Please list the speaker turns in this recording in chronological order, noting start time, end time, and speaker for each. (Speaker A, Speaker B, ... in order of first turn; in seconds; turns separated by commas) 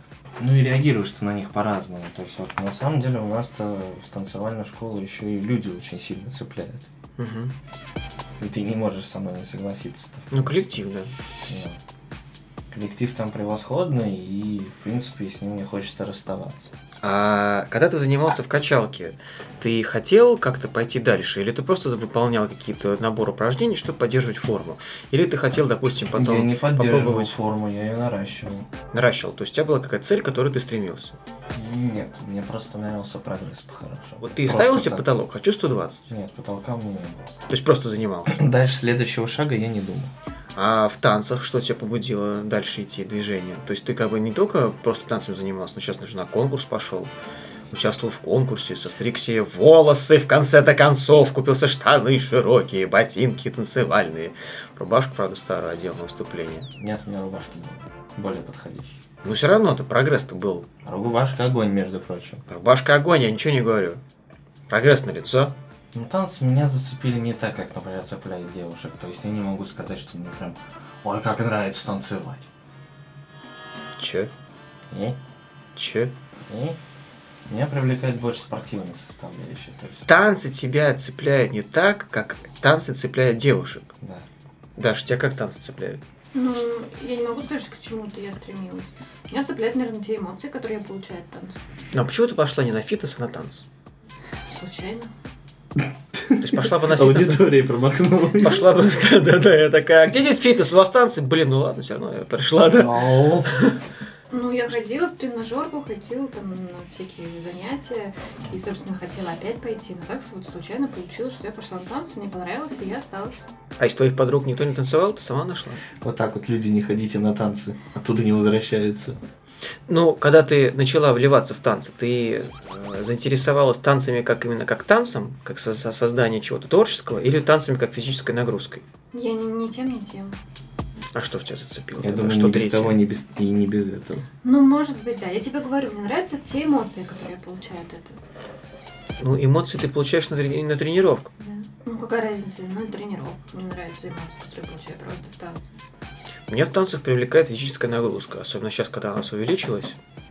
Speaker A: 0.4-6.9, Speaker B: 7.2-7.5, Speaker A: 8.4-10.6, Speaker B: 10.3-11.1, Speaker A: 11.5-11.8, Speaker A: 12.7-16.7, Speaker B: 17.0-27.3, Speaker A: 26.1-28.7, Speaker B: 28.9-31.2, Speaker A: 31.5-35.1, Speaker B: 34.2-36.1, Speaker A: 36.1-37.4, Speaker B: 37.5-38.5, Speaker A: 38.3-40.1, Speaker B: 40.5-47.1, Speaker B: 47.7-56.7, Speaker A: 56.8-59.0, Speaker B: 59.2-60.7, Speaker A: 60.8-62.4, Speaker B: 62.5-64.0, Speaker B: 64.7-65.5, Speaker A: 65.9-72.5, Speaker B: 74.0-74.3, Speaker A: 74.9-75.2, Speaker B: 75.8-76.1, Speaker A: 76.5-76.8, Speaker A: 77.5-80.1, Speaker B: 80.0-83.9, Speaker B: 84.8-86.0, Speaker C: 86.3-91.6, Speaker B: 91.9-93.6, Speaker C: 94.5-95.1, Speaker A: 95.8-98.8, Speaker B: 96.4-97.5, Speaker B: 98.4-103.8, Speaker A: 102.7-103.5, Speaker C: 104.3-113.4, Speaker B: 113.8-115.8, Speaker A: 116.0-119.2, Speaker B: 119.9-128.8, Speaker C: 129.1-130.4, Speaker B: 131.1-133.0, Speaker A: 132.0-134.2, Speaker C: 134.4-138.2, Speaker B: 139.2-141.3, Speaker C: 141.4-145.7, Speaker B: 146.5-150.0